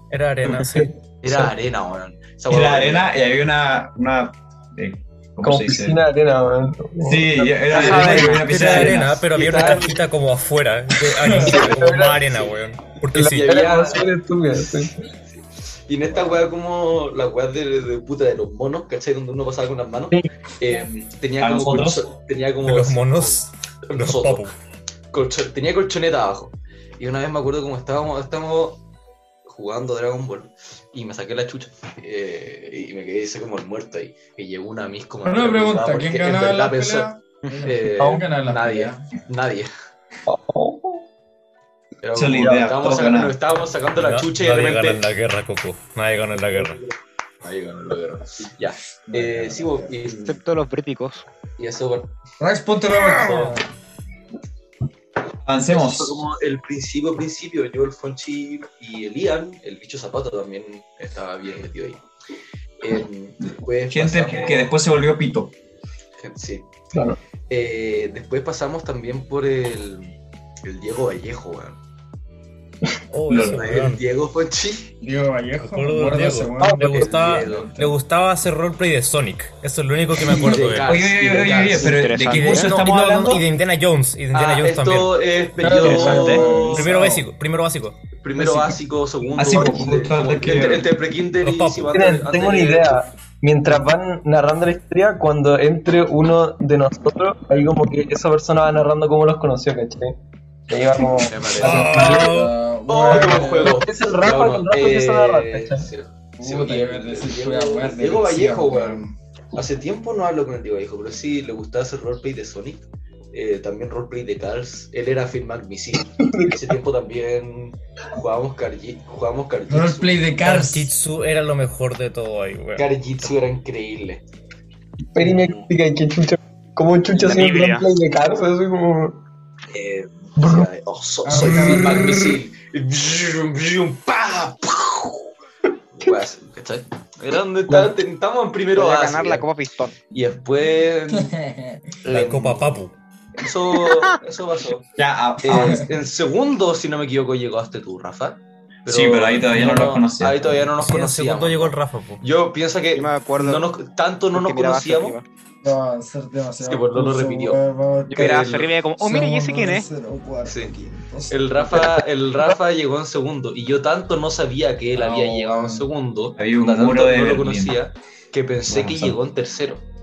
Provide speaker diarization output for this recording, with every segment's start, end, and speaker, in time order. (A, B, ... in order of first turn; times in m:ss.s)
0:00.1-0:00.9 A
0:00.5-0:01.5 B
0:01.2-0:03.1 C
0:02.5-0:06.0 D
0:05.4-0:08.1 B
0:07.0-0:09.2 D
0:07.7-0:09.0 E
0:07.7-0:08.2 C
0:07.9-0:13.5 A
0:08.9-0:10.0 C
0:11.1-0:11.6 F
0:11.4-0:12.5 B
0:13.1-0:15.0 B
0:13.3-0:14.8 C
0:15.9-0:24.5 C
0:21.4-0:22.1 D
0:22.6-0:24.5 A
0:25.1-0:28.8 C
0:29.5-0:37.1 C
0:35.2-0:39.0 F
0:37.6-0:39.7 C
0:38.0-0:38.2 B
0:40.3-0:41.0 B
0:42.0-0:45.0 C
0:42.1-0:43.4 D
0:42.4-0:42.7 B
0:44.0-0:46.8 A
0:46.4-0:46.9 C
0:47.4-0:50.4 C
0:49.1-0:49.9 F
0:50.2-0:51.2 E
0:51.6-0:52.1 C
0:52.4-0:53.7 F
0:53.2-0:53.6 C
0:55.5-0:56.2 D
0:55.7-1:02.0 C
1:02.8-1:04.8 C
1:03.9-1:05.5 D
1:06.2-1:06.7 C
1:07.5-1:11.8 C
1:13.1-1:14.0 A
1:13.3-1:13.7 D
1:13.4-1:14.9 C
1:15.0-1:17.6 F
1:15.6-1:21.0 A
1:16.6-1:16.9 B
1:16.9-1:17.9 C
1:20.2-1:22.0 C
1:20.3-1:23.4 D
1:21.8-1:22.7 E
1:22.3-1:25.2 A
1:24.3-1:27.0 C
1:25.6-1:27.3 F
1:25.8-1:26.4 E
1:26.2-1:28.0 A
1:28.2-1:33.0 C
1:29.4-1:30.9 D
1:31.4-1:31.9 A
1:31.9-1:40.2 B
1:40.7-1:42.2 B
1:41.2-1:42.2 C
1:41.6-1:43.8 F
1:41.6-1:42.6 A
1:42.9-2:00.2 C
1:43.1-1:45.9 B
1:46.4-1:49.2 F
1:56.2-1:56.7 B
1:59.7-2:00.9 F
2:00.4-2:02.9 A
2:02.8-2:04.2 C
2:05.1-2:09.2 B
2:07.1-2:07.9 E
2:09.7-2:15.2 C
2:10.4-2:10.7 B
2:11.2-2:12.0 F
2:11.9-2:12.4 A
2:16.0-2:19.5 C
2:17.7-2:17.9 B
2:18.8-2:19.9 E
2:20.1-2:21.3 C
2:21.1-2:21.8 F
2:22.0-2:22.8 C
2:22.1-2:23.0 A
2:23.4-2:24.9 C
2:23.8-2:24.1 E
2:25.0-2:25.8 D
2:25.4-2:35.2 C
2:28.9-2:30.7 D
2:30.8-2:32.2 A
2:33.0-2:33.6 E
2:34.3-2:35.2 E
2:35.6-2:41.9 F
2:36.6-2:37.6 C
2:38.1-2:39.9 E
2:38.2-2:38.7 C
2:40.4-2:40.7 C
2:41.3-2:49.8 C
2:44.9-2:45.9 F
2:46.4-2:47.8 D
2:48.7-2:49.2 D